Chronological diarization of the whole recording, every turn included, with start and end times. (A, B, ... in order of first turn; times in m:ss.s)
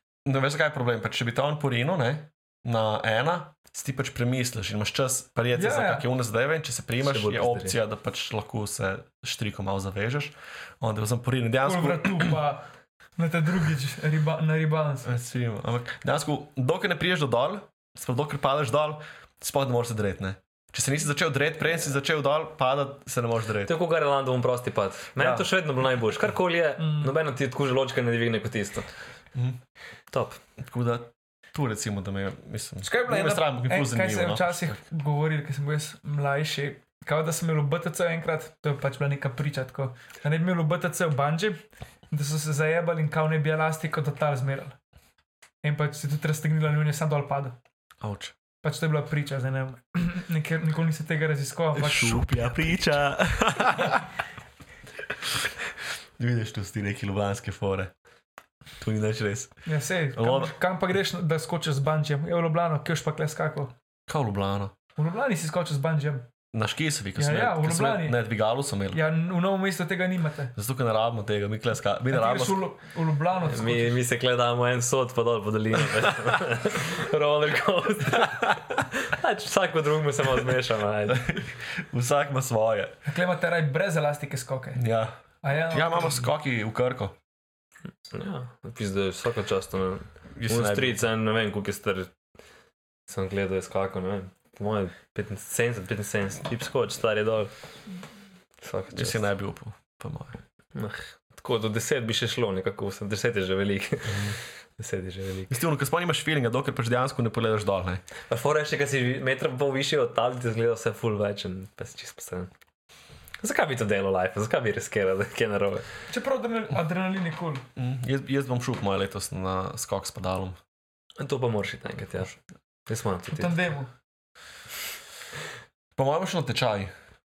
0:00.2-0:12.4 A
0:05.5-0:06.0 B
0:07.0-0:07.7 C
0:11.6-0:12.6 B
0:13.2-0:15.1 B
0:15.0-0:23.7 A
0:23.6-0:28.9 C
0:25.2-0:25.5 A
0:26.8-0:27.1 B
0:29.3-0:29.6 A
0:30.1-0:30.4 C
0:30.6-0:34.8 A
0:32.8-0:44.8 B
0:45.6-0:47.6 B
0:48.0-0:48.3 A
0:48.6-0:52.3 B
0:51.7-0:54.1 A
0:56.2-0:57.9 A
0:58.8-0:59.5 A
0:59.6-1:03.7 B
1:00.1-1:00.5 A
1:04.1-1:04.7 A
1:05.0-1:06.2 B
1:06.5-1:09.0 A
1:07.2-1:08.2 B
1:08.9-1:10.5 B
1:10.6-1:12.6 A
1:12.1-1:14.0 B
1:13.4-1:21.3 C
1:18.2-1:18.6 A
1:21.1-1:22.9 A
1:23.0-1:24.8 B
1:24.8-1:25.2 A
1:25.4-1:26.3 B
1:25.7-1:27.2 A
1:28.1-1:32.1 C
1:30.4-1:31.0 A
1:33.1-1:37.5 C
1:38.6-1:39.2 C
1:38.9-1:40.4 A
1:40.7-1:45.6 C
1:44.1-1:44.4 A
1:45.5-1:48.0 A
1:48.3-1:52.5 C
1:53.4-1:55.9 C
1:56.1-1:57.6 B
1:57.8-2:00.6 A
2:01.2-2:02.3 C
2:02.9-2:03.6 C
2:03.3-2:03.9 B
2:06.0-2:06.9 A